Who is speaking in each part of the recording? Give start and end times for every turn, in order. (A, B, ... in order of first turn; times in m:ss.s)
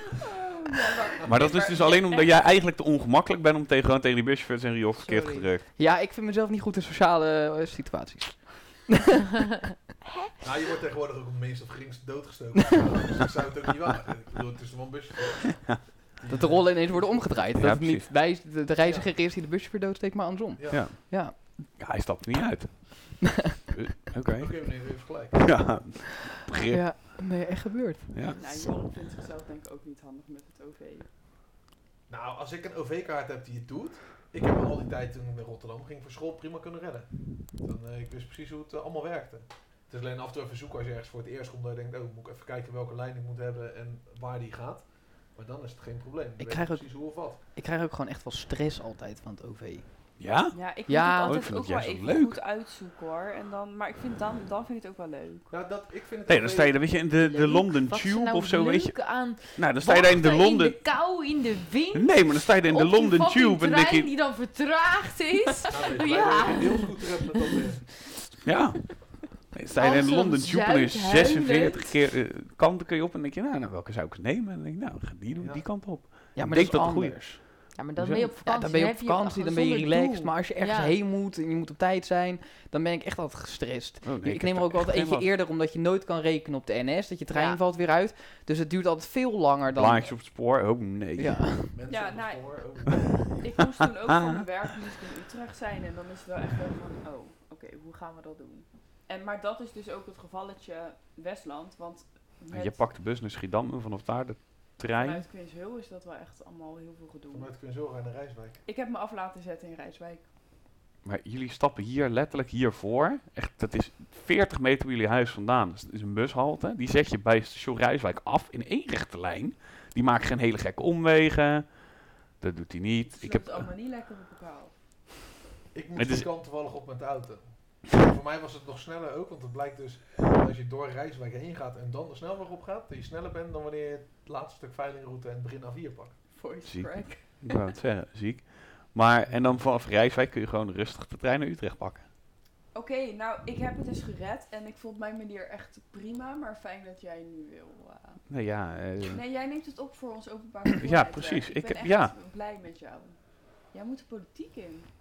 0:00.2-0:02.4 A
0:01.3-0:05.6 B
0:05.0-0:05.5 C
0:05.8-0:09.1 D
0:10.4-0:17.5 E
0:16.3-0:21.4 D
0:17.5-0:18.1 B
0:18.8-0:19.1 E
0:20.6-0:20.9 E
0:20.7-0:27.0 B
0:24.4-0:25.8 E
0:26.7-0:28.6 D
0:28.1-0:28.4 B
0:28.3-0:31.1 A
0:32.1-0:47.4 E
0:46.4-0:50.2 D
0:50.2-0:52.4 B
0:50.5-0:55.5 A
0:50.9-0:51.4 D
0:55.5-0:56.9 E
0:56.3-1:00.8 B
0:57.0-1:07.3 C
1:01.9-1:04.1 B
1:05.7-1:07.9 E
1:08.4-1:18.3 B
1:09.8-1:11.9 C
1:15.3-1:15.6 E
1:16.3-1:17.4 D
1:17.7-1:21.0 C
1:18.3-1:30.2 D
1:24.0-1:25.3 B
1:27.3-1:27.6 C
1:29.7-1:31.6 B
1:31.2-1:31.7 D
1:31.7-1:33.4 E
1:31.9-1:42.8 A
1:34.1-1:34.4 B
1:42.5-1:45.2 B
1:44.9-1:47.5 A
1:47.3-1:48.6 E
1:48.6-1:50.2 A
1:51.0-2:03.7 B
2:03.0-2:04.7 A
2:05.7-2:16.3 E
2:06.0-2:06.3 B
2:16.3-2:17.7 A
2:16.6-2:22.0 B
2:19.3-2:19.6 E
2:22.7-2:34.9 A
2:28.3-2:29.2 B
2:30.8-2:32.1 B